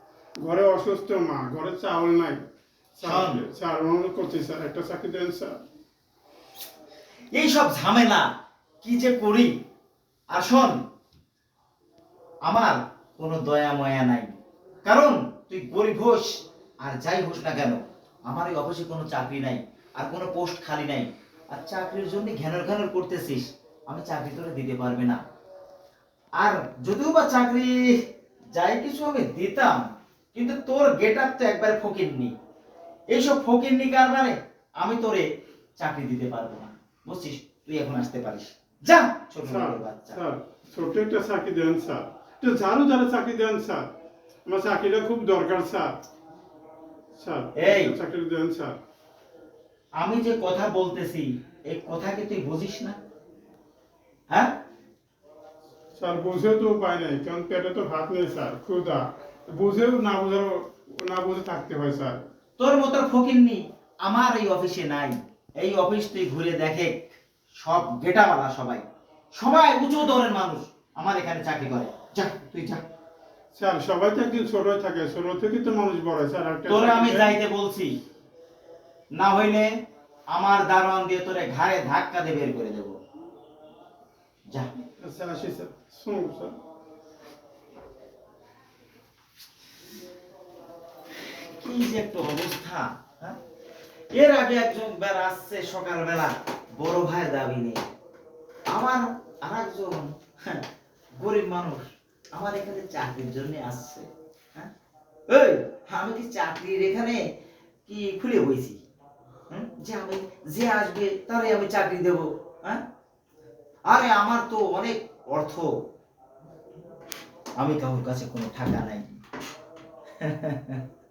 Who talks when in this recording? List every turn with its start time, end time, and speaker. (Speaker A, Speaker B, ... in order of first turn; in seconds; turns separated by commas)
Speaker A: 0.4-2.4, Speaker A: 2.9-5.6, Speaker B: 3.0-3.5, Speaker B: 7.3-8.3, Speaker B: 8.8-9.5, Speaker B: 10.3-10.8, Speaker B: 12.4-25.2, Speaker B: 26.4-28.0, Speaker B: 28.5-32.3, Speaker B: 33.1-35.2, Speaker B: 35.8-40.2, Speaker A: 39.5-43.9, Speaker A: 44.5-45.9, Speaker A: 47.2-48.8, Speaker B: 47.5-48.0, Speaker B: 50.0-53.0, Speaker A: 55.9-62.2, Speaker B: 62.6-72.8, Speaker A: 73.5-77.3, Speaker B: 76.7-77.9, Speaker B: 79.1-79.7, Speaker B: 80.3-83.0, Speaker A: 85.0-86.5, Speaker B: 91.6-93.4, Speaker B: 94.1-97.9, Speaker B: 98.7-100.6, Speaker B: 101.2-104.7, Speaker B: 105.3-107.2, Speaker B: 107.8-108.8, Speaker B: 109.5-112.8, Speaker B: 113.9-115.7, Speaker B: 117.6-119.2, Speaker B: 120.2-120.8